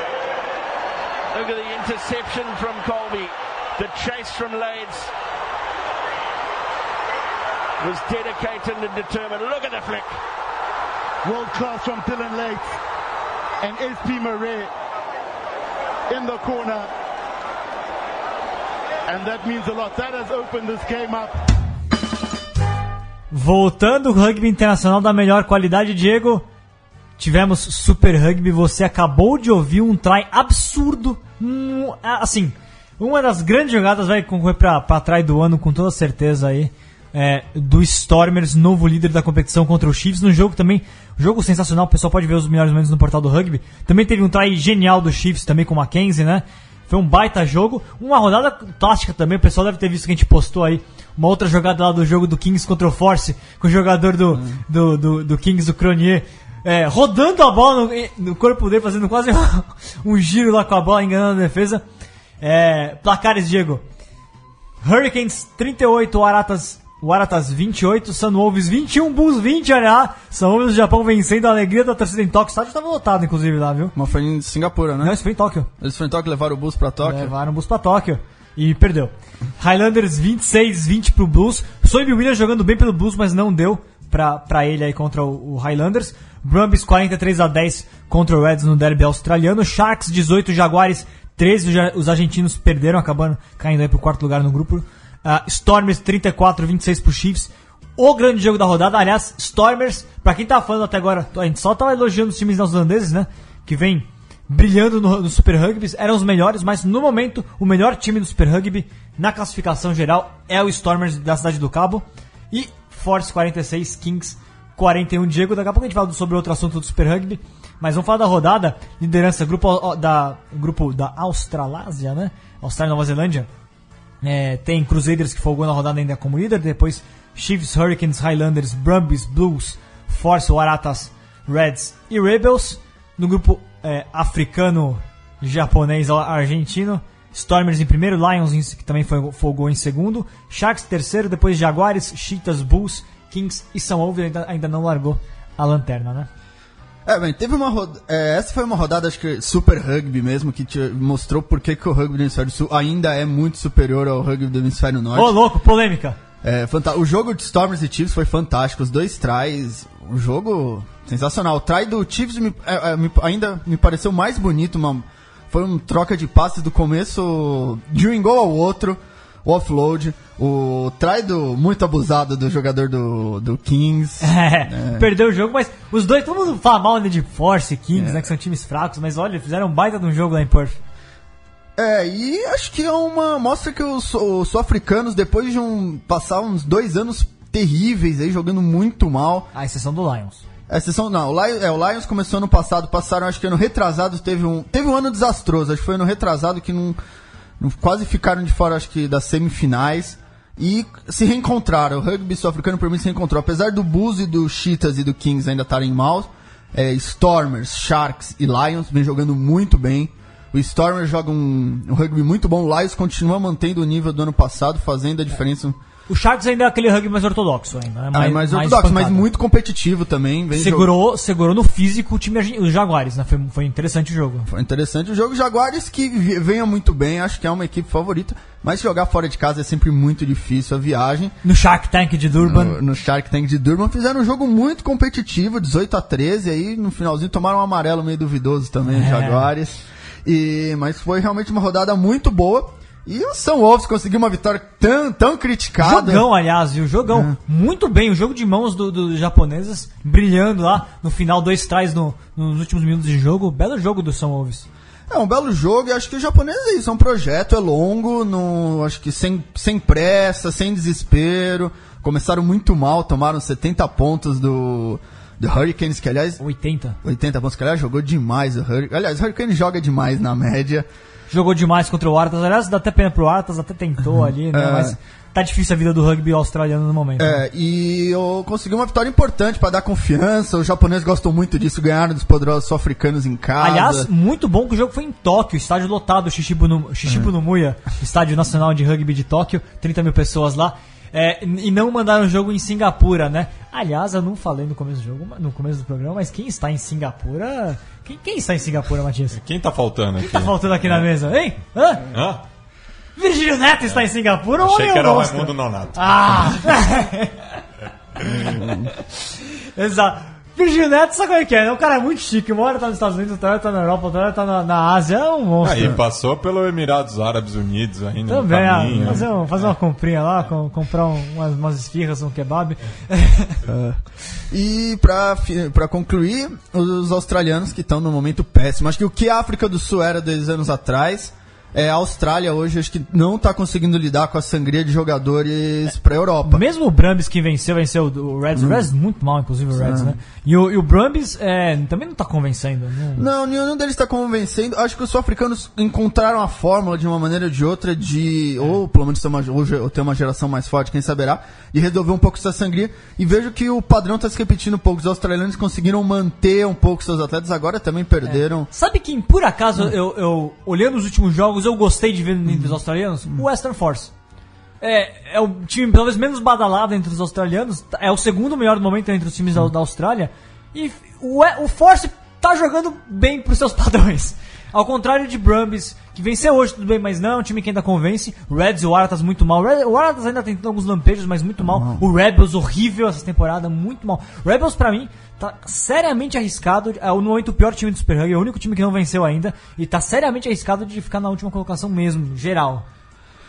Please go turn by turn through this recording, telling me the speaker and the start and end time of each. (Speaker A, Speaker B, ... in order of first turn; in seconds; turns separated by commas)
Speaker A: 1.3-5.1, Speaker A: 7.8-10.1, Speaker B: 11.2-12.8, Speaker B: 13.6-14.7, Speaker B: 16.1-16.9, Speaker B: 19.1-21.4, Speaker C: 23.3-26.4, Speaker C: 27.2-61.8, Speaker D: 54.3-54.6, Speaker C: 62.4-63.8, Speaker C: 64.8-73.9, Speaker D: 73.9-75.2, Speaker C: 75.0-75.7, Speaker D: 75.8-77.3, Speaker C: 77.0-123.5, Speaker C: 124.2-146.3, Speaker D: 147.1-155.4, Speaker C: 155.1-156.2, Speaker D: 156.4-175.1, Speaker C: 174.2-180.8, Speaker D: 177.9-178.2, Speaker D: 181.8-189.5, Speaker C: 189.5-190.4, Speaker D: 190.7-197.0, Speaker D: 197.6-215.8, Speaker C: 216.1-219.3, Speaker D: 218.1-220.9, Speaker C: 220.5-224.5, Speaker D: 224.5-231.3, Speaker C: 231.4-232.8, Speaker D: 232.4-246.3, Speaker C: 238.8-239.5, Speaker C: 245.8-254.7, Speaker D: 247.1-247.3, Speaker D: 255.1-266.4, Speaker C: 266.4-267.0, Speaker D: 267.0-270.9, Speaker C: 271.3-277.4, Speaker D: 274.5-275.0, Speaker D: 277.2-284.1, Speaker C: 283.6-299.4, Speaker D: 287.1-287.3, Speaker E: 299.3-301.1, Speaker C: 300.2-302.1, Speaker E: 302.1-302.4, Speaker C: 303.2-307.4, Speaker E: 304.5-306.6, Speaker D: 308.4-308.9, Speaker C: 309.7-315.9, Speaker E: 315.6-319.6, Speaker C: 318.3-323.6, Speaker D: 318.9-319.2, Speaker D: 323.6-336.6, Speaker C: 336.4-343.2, Speaker D: 338.5-338.9, Speaker D: 339.7-340.2, Speaker D: 343.1-358.7, Speaker C: 358.2-364.1, Speaker C: 364.8-392.9, Speaker D: 381.6-382.1